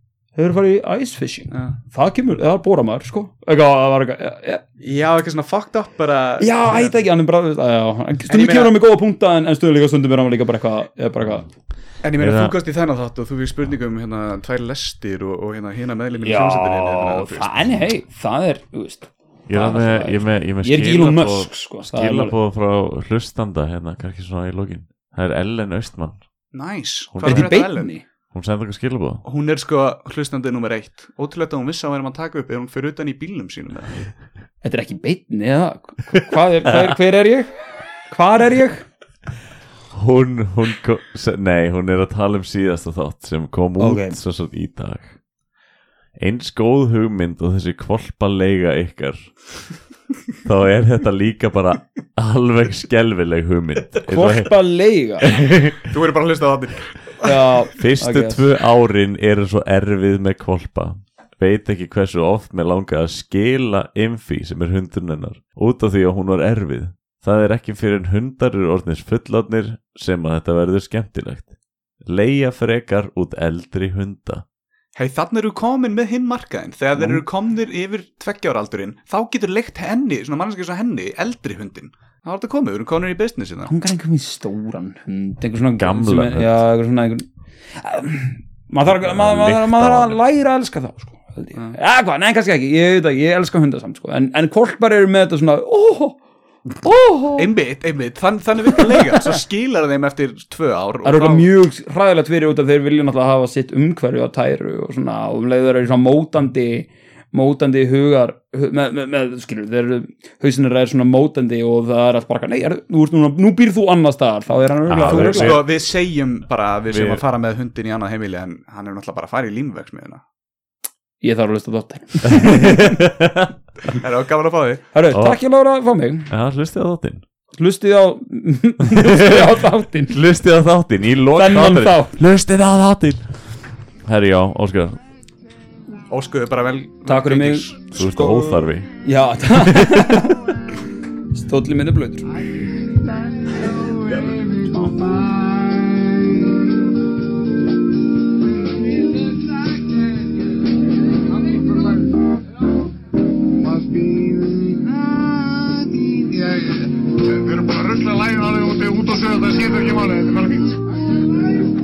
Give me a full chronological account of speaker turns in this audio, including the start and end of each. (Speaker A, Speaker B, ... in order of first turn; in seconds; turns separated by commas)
Speaker A: 0.3-4.6, Speaker B: 4.8-7.0, Speaker A: 6.4-11.5, Speaker B: 8.3-8.7, Speaker B: 12.0-17.7, Speaker C: 12.2-12.5, Speaker A: 16.2-22.3, Speaker C: 19.5-26.2, Speaker B: 26.5-27.9, Speaker C: 27.1-27.5, Speaker A: 27.2-28.0, Speaker C: 28.3-29.2, Speaker B: 29.2-34.1, Speaker A: 34.6-37.5, Speaker A: 38.1-38.9, Speaker C: 39.9-45.1, Speaker A: 43.8-44.2, Speaker C: 46.2-49.5, Speaker C: 50.4-54.5, Speaker A: 54.0-55.2, Speaker C: 55.2-55.9, Speaker B: 55.8-57.4, Speaker A: 57.2-58.4, Speaker C: 57.8-71.5, Speaker C: 72.0-74.4, Speaker B: 74.9-83.7, Speaker A: 77.0-77.2, Speaker A: 83.7-96.2, Speaker C: 85.8-86.6, Speaker C: 88.9-90.1, Speaker A: 96.8-97.5, Speaker B: 97.4-101.5, Speaker A: 101.0-115.6, Speaker C: 114.9-115.7, Speaker B: 115.0-120.2, Speaker C: 116.9-117.2, Speaker A: 121.2-123.1, Speaker C: 122.2-123.5, Speaker B: 123.9-124.8, Speaker A: 124.9-126.3, Speaker C: 125.1-125.4, Speaker C: 126.3-127.2, Speaker A: 127.5-130.2, Speaker C: 128.9-133.3, Speaker A: 131.3-132.2, Speaker C: 134.1-135.0, Speaker B: 136.1-137.8, Speaker A: 137.1-140.5, Speaker C: 137.9-138.9, Speaker C: 139.5-140.2, Speaker A: 141.3-142.5, Speaker D: 142.9-146.8, Speaker D: 148.4-152.5, Speaker D: 153.2-160.9